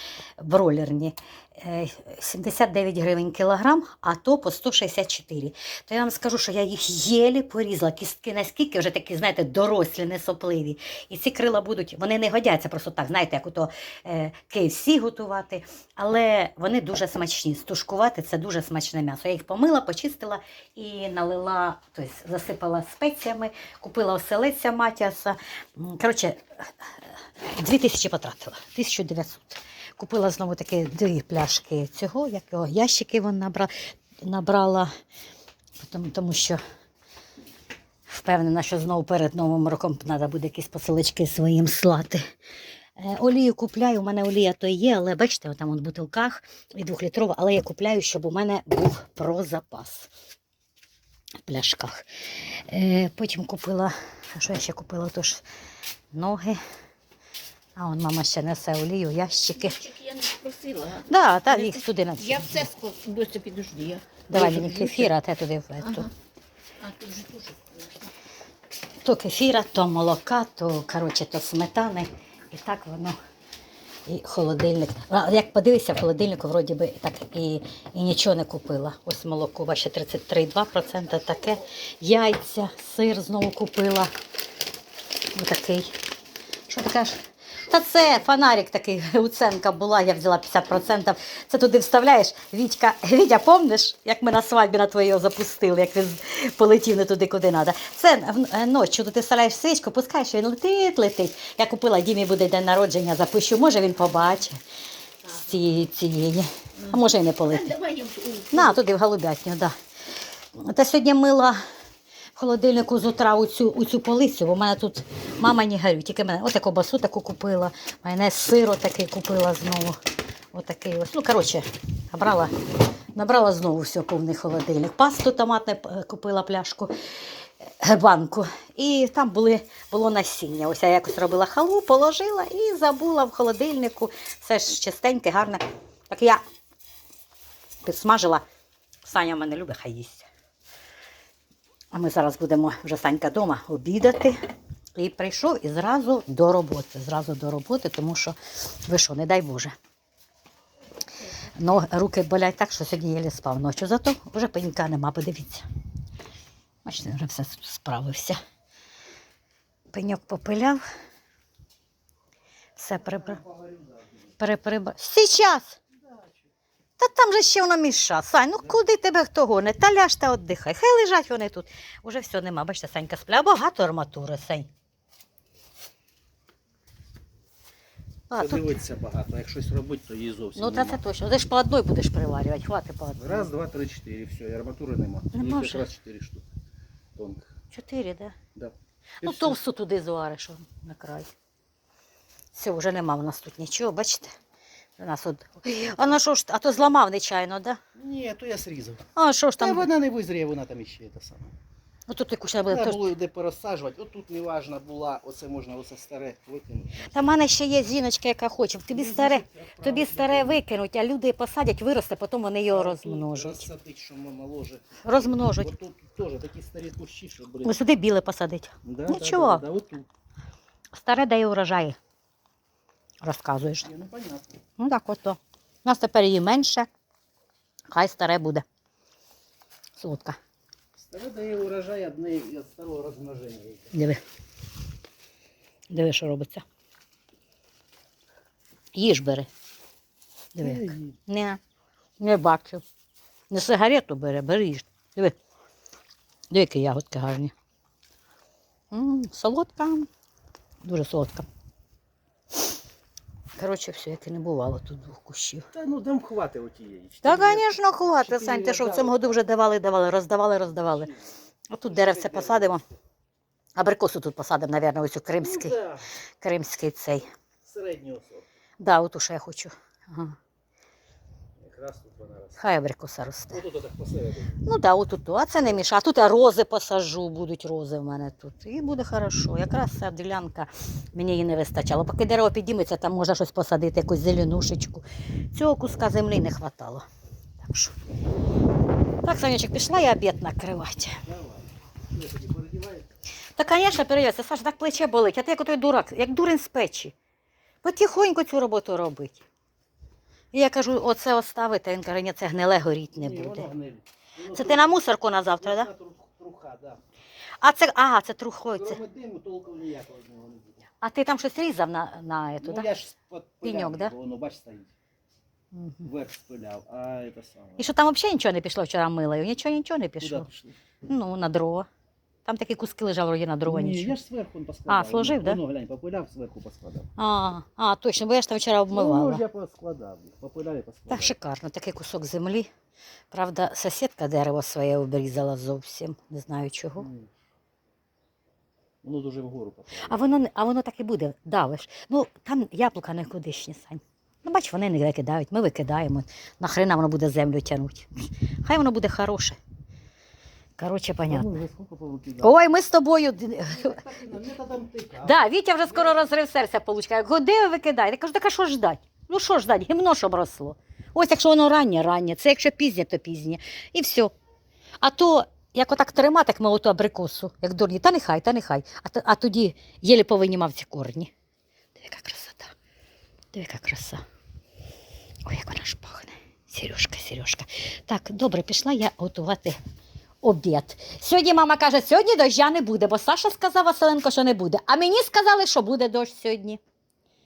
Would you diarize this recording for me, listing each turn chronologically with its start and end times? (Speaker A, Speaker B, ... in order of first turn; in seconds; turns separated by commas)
Speaker A: 0.4-26.9, Speaker A: 27.6-33.7, Speaker A: 34.2-34.9, Speaker A: 35.8-36.6, Speaker A: 38.1-42.2, Speaker A: 43.0-50.1, Speaker A: 51.5-52.0, Speaker A: 52.6-55.5, Speaker A: 56.1-56.6, Speaker A: 57.8-60.0, Speaker B: 59.8-61.1, Speaker A: 60.9-62.7, Speaker B: 61.7-65.1, Speaker A: 64.3-66.1, Speaker B: 66.8-67.9, Speaker A: 69.0-73.2, Speaker A: 74.1-84.1, Speaker A: 85.3-85.9, Speaker A: 86.7-104.6, Speaker A: 105.2-107.8, Speaker B: 107.7-108.6, Speaker A: 108.5-109.7, Speaker A: 110.5-111.6, Speaker A: 112.4-120.0, Speaker A: 120.5-122.5, Speaker A: 123.2-126.9, Speaker A: 127.8-136.4, Speaker A: 137.8-138.4, Speaker A: 139.1-140.3, Speaker A: 141.9-144.4, Speaker A: 145.0-149.8, Speaker A: 151.5-155.7, Speaker A: 156.8-158.4, Speaker A: 159.9-160.8, Speaker A: 162.8-163.4, Speaker C: 163.4-164.1, Speaker A: 164.4-165.8, Speaker A: 167.0-174.7, Speaker A: 178.3-178.7, Speaker C: 178.4-181.0, Speaker A: 180.6-183.5, Speaker C: 183.2-186.5, Speaker A: 185.3-185.8, Speaker C: 187.2-187.5, Speaker A: 187.7-188.4, Speaker C: 188.6-189.6, Speaker A: 189.2-191.3, Speaker A: 192.5-194.3, Speaker A: 195.0-197.8, Speaker C: 198.0-199.1, Speaker A: 199.2-199.9, Speaker C: 199.6-201.6, Speaker A: 202.1-203.1, Speaker C: 202.7-207.4, Speaker A: 207.1-213.7, Speaker C: 208.9-210.6, Speaker C: 212.7-217.8, Speaker A: 215.0-215.7, Speaker A: 217.6-219.6, Speaker C: 218.8-220.1, Speaker A: 220.9-222.0, Speaker A: 223.2-223.9, Speaker C: 223.8-224.6, Speaker A: 224.8-226.9, Speaker A: 227.9-228.7, Speaker A: 230.0-230.4, Speaker C: 231.0-233.9, Speaker A: 233.9-234.2, Speaker A: 235.9-236.7, Speaker A: 238.9-239.5, Speaker A: 240.6-241.6, Speaker C: 240.6-241.2, Speaker A: 242.2-242.8, Speaker A: 243.5-245.3, Speaker A: 246.5-247.5, Speaker A: 248.9-250.1, Speaker A: 250.8-251.5, Speaker A: 253.6-255.7, Speaker C: 255.7-259.3, Speaker A: 257.2-261.1, Speaker C: 260.8-261.2, Speaker A: 261.7-262.8, Speaker C: 261.9-262.9, Speaker A: 263.8-265.8, Speaker C: 265.4-266.1, Speaker A: 266.4-267.3, Speaker C: 267.6-268.5, Speaker A: 268.8-270.4, Speaker C: 271.6-272.6, Speaker A: 272.6-273.6, Speaker C: 273.5-274.6, Speaker A: 274.6-287.1, Speaker A: 287.6-288.0, Speaker A: 289.2-291.2, Speaker C: 291.3-293.1, Speaker A: 293.6-297.1, Speaker A: 297.8-299.4, Speaker A: 300.5-303.7, Speaker C: 303.2-305.0, Speaker A: 304.5-305.9, Speaker C: 305.6-307.0, Speaker A: 307.6-309.0, Speaker C: 308.8-310.8, Speaker A: 311.0-312.9, Speaker C: 312.6-314.9, Speaker A: 313.6-314.1, Speaker A: 315.7-316.1, Speaker C: 316.0-317.9, Speaker A: 317.8-320.5, Speaker C: 320.2-320.8, Speaker A: 321.1-321.9, Speaker A: 322.5-324.2, Speaker C: 323.7-327.1, Speaker A: 324.9-325.6, Speaker A: 327.2-329.4, Speaker C: 328.9-331.4, Speaker A: 331.1-332.7, Speaker A: 333.3-337.1, Speaker C: 337.0-337.3, Speaker C: 339.0-340.1, Speaker A: 340.0-348.1, Speaker A: 348.6-349.6, Speaker A: 350.8-351.6, Speaker C: 351.3-352.6, Speaker A: 352.4-354.0, Speaker C: 353.6-355.4, Speaker A: 355.2-364.3, Speaker A: 365.0-371.3, Speaker A: 372.0-372.7, Speaker A: 373.5-374.2, Speaker A: 375.5-379.8, Speaker A: 380.4-386.8